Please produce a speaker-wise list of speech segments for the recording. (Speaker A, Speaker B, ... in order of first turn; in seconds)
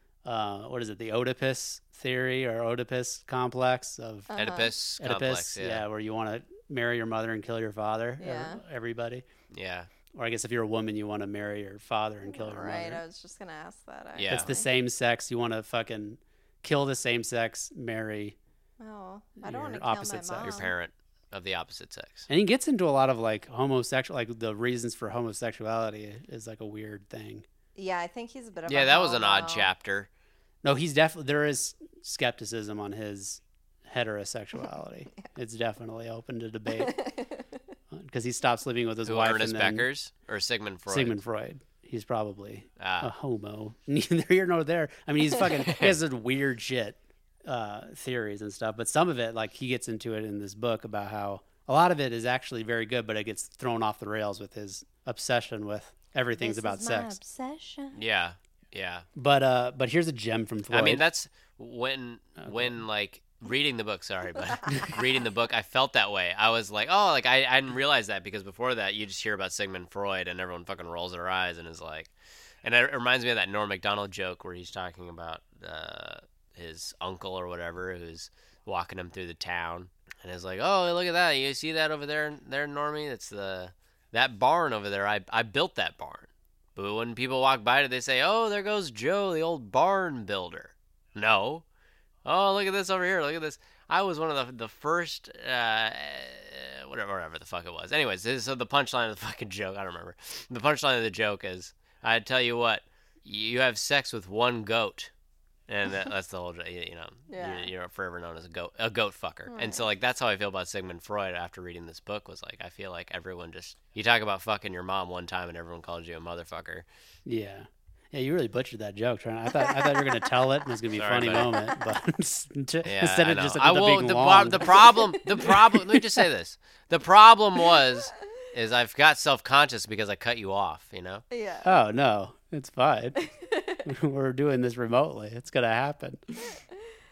Speaker A: 0.2-4.4, 5.0-9.2, 10.1-13.0, 14.3-18.4, 19.4-20.6, 22.3-27.4, 30.6-36.9, 37.9-39.9, 40.9-57.2, 59.1-61.0, 62.4-62.8, 117.2-125.7, 131.6-133.2, 133.8-136.2
Speaker B: 4.3-4.7, 8.2-8.6, 12.2-14.7, 18.8-20.7, 27.8-29.7, 36.7-37.5, 56.4-58.0, 107.3-107.7, 109.5-109.8, 119.5-120.3, 121.5-121.8, 131.3-131.8, 133.2-133.8
Speaker C: 4.3-5.8, 9.5-9.9, 14.2-14.5, 20.4-22.3, 28.7-30.1, 39.0-41.2, 42.8-43.1, 45.5-46.0, 57.9-59.0, 60.7-72.1, 72.6-91.6, 92.2-105.1, 105.7-116.8, 121.0-121.5, 122.8-131.2